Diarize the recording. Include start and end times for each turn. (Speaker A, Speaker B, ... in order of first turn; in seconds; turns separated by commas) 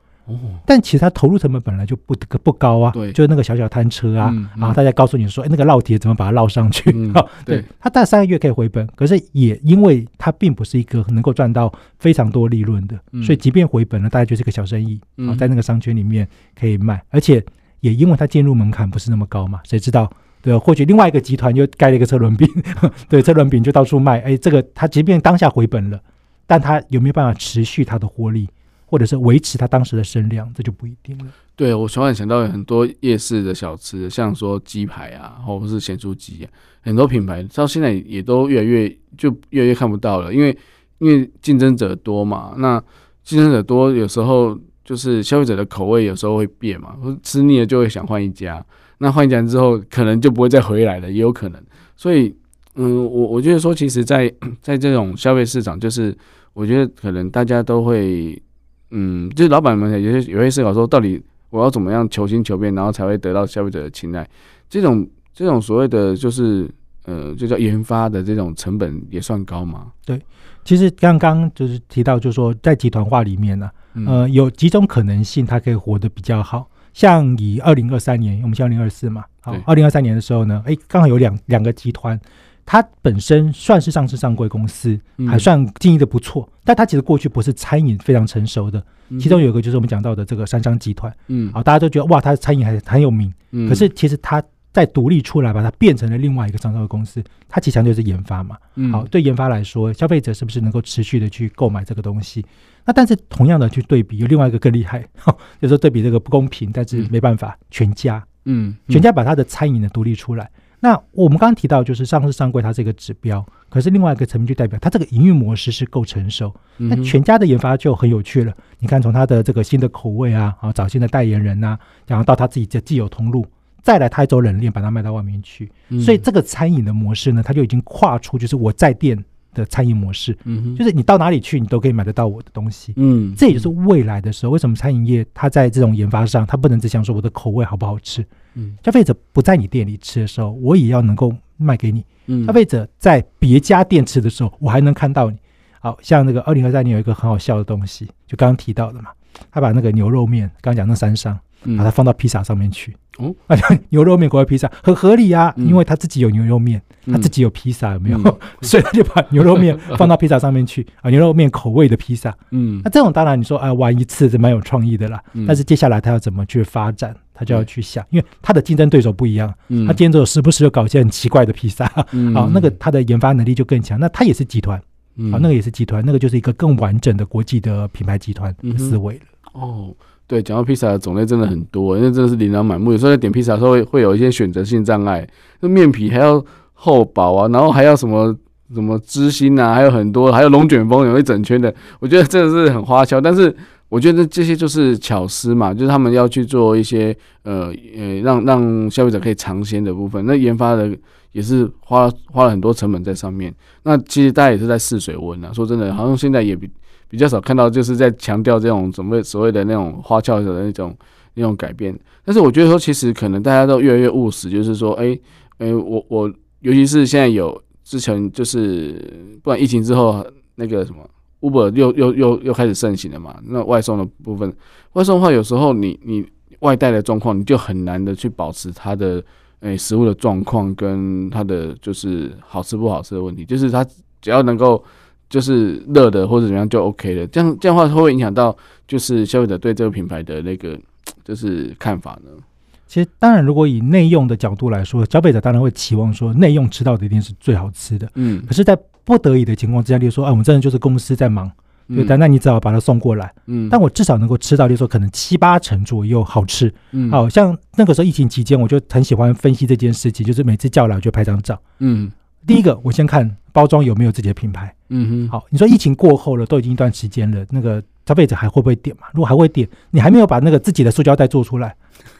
Speaker A: 0.3-0.6, Speaker B: 0.6-31.3, Speaker A: 4.2-4.8, Speaker A: 6.9-7.7, Speaker A: 13.1-13.4, Speaker A: 15.2-15.4, Speaker A: 31.6-69.9, Speaker B: 70.0-108.2, Speaker A: 73.9-74.2, Speaker A: 85.2-85.5, Speaker A: 89.1-89.4, Speaker A: 91.3-91.5, Speaker A: 93.5-93.8, Speaker A: 98.8-99.0, Speaker A: 108.5-109.0, Speaker B: 108.9-138.3, Speaker A: 116.8-117.1, Speaker A: 125.9-126.2, Speaker A: 130.4-130.8, Speaker A: 132.9-133.6, Speaker B: 138.8-179.2, Speaker A: 142.3-142.6, Speaker A: 157.1-157.3, Speaker A: 158.1-158.4, Speaker A: 159.7-160.0, Speaker A: 162.5-162.9, Speaker A: 169.7-170.0, Speaker A: 172.1-172.7, Speaker A: 175.2-175.5, Speaker A: 178.6-178.9, Speaker A: 179.5-242.4, Speaker B: 242.9-261.6, Speaker A: 248.2-248.5, Speaker A: 251.9-252.2, Speaker A: 253.5-253.8, Speaker A: 256.9-257.2, Speaker A: 261.8-262.1, Speaker B: 262.4-264.7, Speaker A: 264.9-265.3, Speaker B: 265.3-271.8